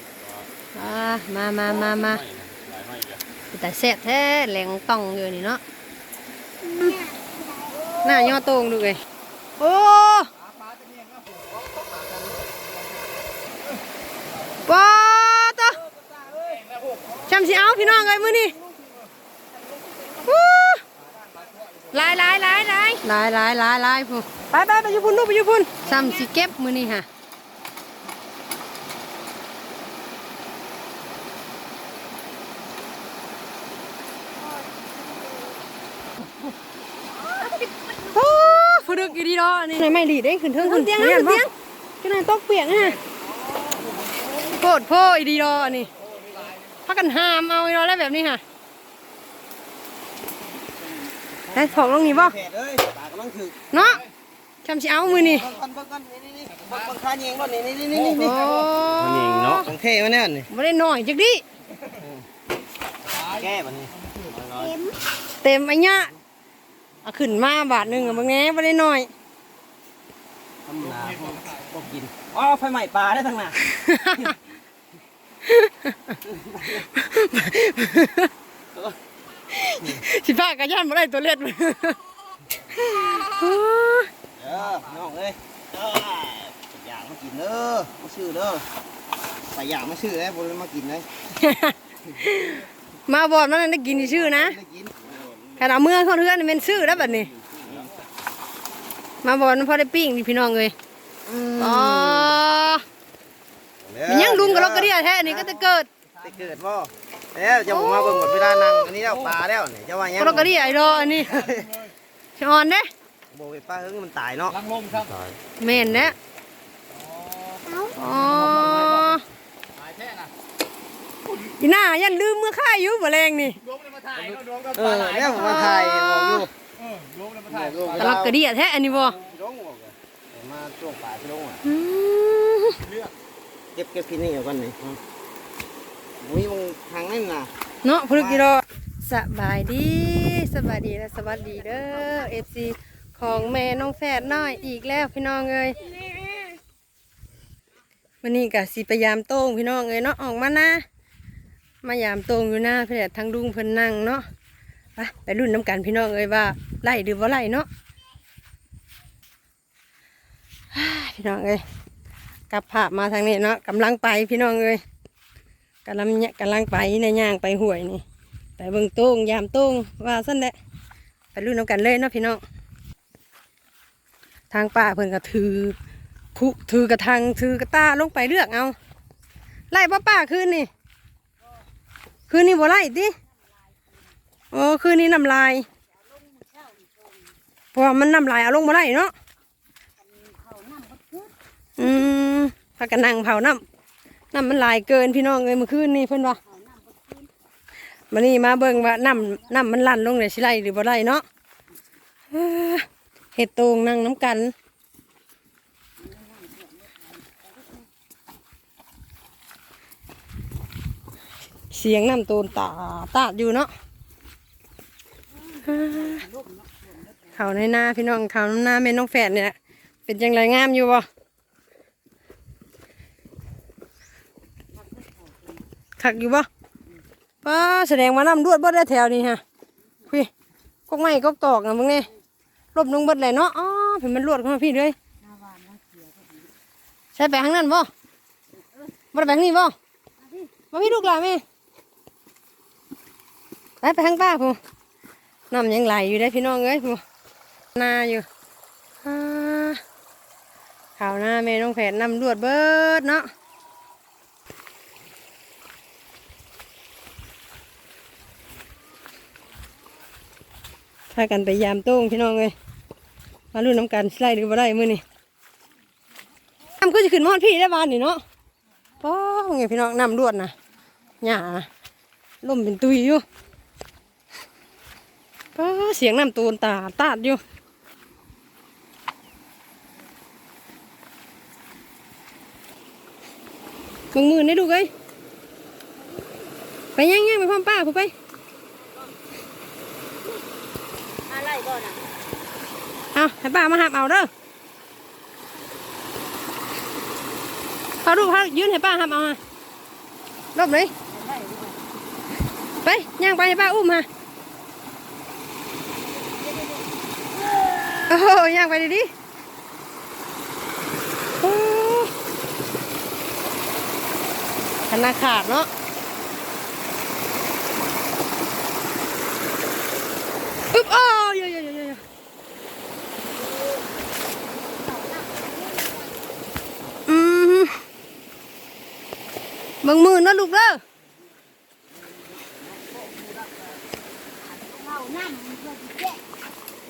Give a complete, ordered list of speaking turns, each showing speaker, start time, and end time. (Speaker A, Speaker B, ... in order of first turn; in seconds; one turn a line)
Speaker A: 0.8-2.2
Speaker B: 2.2-3.2
Speaker A: 3.5-5.6
Speaker C: 6.6-7.8
Speaker A: 8.0-9.0
Speaker A: 9.6-10.3
Speaker A: 14.7-15.8
Speaker A: 17.2-18.6
Speaker A: 20.2-20.8
Speaker A: 21.9-27.1
Speaker C: 35.2-35.5
Speaker C: 37.4-38.6
Speaker A: 38.1-41.5
Speaker C: 40.9-41.4
Speaker A: 42.0-43.0
Speaker A: 44.5-45.9
Speaker A: 46.9-48.4
Speaker A: 51.5-52.4
Speaker D: 52.1-53.7
Speaker A: 53.7-54.0
Speaker A: 54.6-55.5
Speaker D: 55.0-58.5
Speaker A: 58.1-59.7
Speaker D: 59.5-60.5
Speaker A: 60.5-61.4
Speaker D: 61.9-62.2
Speaker D: 63.2-64.9
Speaker C: 64.6-64.9
Speaker A: 65.4-66.1
Speaker A: 67.0-69.1
Speaker D: 70.7-73.6
Speaker A: 73.7-74.3
Speaker A: 75.5-76.2
Speaker D: 76.3-76.8
Speaker A: 76.8-78.3
Speaker A: 79.5-82.0
Speaker A: 82.8-84.1
Speaker D: 84.4-88.7
Speaker D: 89.5-91.1
Speaker A: 91.4-94.6
Speaker D: 94.0-95.0
Speaker A: 95.6-97.3
Speaker A: 99.2-100.7
Speaker D: 101.3-102.4
Speaker A: 101.6-102.8
Speaker D: 103.8-105.5
Speaker A: 104.1-105.9
Speaker D: 106.2-110.6
Speaker A: 107.7-109.0
Speaker A: 110.2-111.4
Speaker D: 111.2-111.8
Speaker A: 112.4-112.9
Speaker D: 113.3-114.6
Speaker B: 114.7-115.2
Speaker A: 115.6-116.2
Speaker C: 117.6-117.9
Speaker A: 117.9-119.2
Speaker A: 121.6-123.6
Speaker D: 124.1-126.5
Speaker A: 125.3-126.5
Speaker B: 127.0-127.3
Speaker D: 127.4-128.3
Speaker A: 128.0-129.2
Speaker D: 129.0-131.6
Speaker A: 131.6-132.8
Speaker D: 133.8-135.0
Speaker D: 136.2-137.5
Speaker A: 137.8-146.2
Speaker D: 138.1-138.4
Speaker C: 146.0-146.4
Speaker A: 148.2-150.8
Speaker A: 151.8-154.2
Speaker A: 155.0-157.7
Speaker A: 160.7-161.6
Speaker A: 162.5-164.8
Speaker A: 165.9-168.0
Speaker A: 168.6-170.6
Speaker A: 171.3-172.4
Speaker A: 174.5-175.8
Speaker A: 176.3-178.8
Speaker A: 179.7-180.7
Speaker A: 182.3-183.2
Speaker A: 184.5-185.7
Speaker C: 186.2-187.2
Speaker A: 187.7-189.1
Speaker C: 190.0-191.3
Speaker A: 191.8-193.6
Speaker A: 194.3-196.4
Speaker C: 196.4-197.3
Speaker A: 198.1-201.2
Speaker C: 198.9-199.4
Speaker A: 202.3-204.5
Speaker C: 206.1-207.4
Speaker A: 211.7-213.7
Speaker C: 215.6-216.9
Speaker A: 215.7-216.2
Speaker A: 217.3-219.6
Speaker A: 220.1-221.1
Speaker C: 224.8-225.4
Speaker A: 226.0-226.5
Speaker A: 227.4-229.4
Speaker A: 230.9-232.1
Speaker A: 232.8-235.0
Speaker C: 235.2-236.5
Speaker A: 237.2-237.9
Speaker A: 239.1-239.8
Speaker C: 240.2-240.5
Speaker A: 240.7-241.4
Speaker A: 243.8-244.6
Speaker A: 245.5-247.0
Speaker A: 247.8-248.3
Speaker A: 249.0-249.8
Speaker A: 251.0-253.3
Speaker A: 261.1-262.5
Speaker A: 263.5-265.0
Speaker A: 266.8-268.2
Speaker A: 269.0-270.5
Speaker A: 271.2-271.7
Speaker A: 272.4-273.2
Speaker A: 275.6-277.4
Speaker A: 284.1-284.9
Speaker A: 287.0-288.1
Speaker C: 291.3-292.0
Speaker A: 293.1-294.3
Speaker A: 298.0-299.4
Speaker A: 300.6-300.9
Speaker C: 301.1-301.8
Speaker A: 302.8-304.1
Speaker C: 306.2-308.2
Speaker A: 308.1-309.1
Speaker A: 311.4-312.1
Speaker A: 314.9-315.7
Speaker A: 320.7-322.0
Speaker C: 324.8-326.1
Speaker A: 327.1-327.7
Speaker A: 329.8-330.8
Speaker C: 332.5-333.4
Speaker C: 334.5-336.2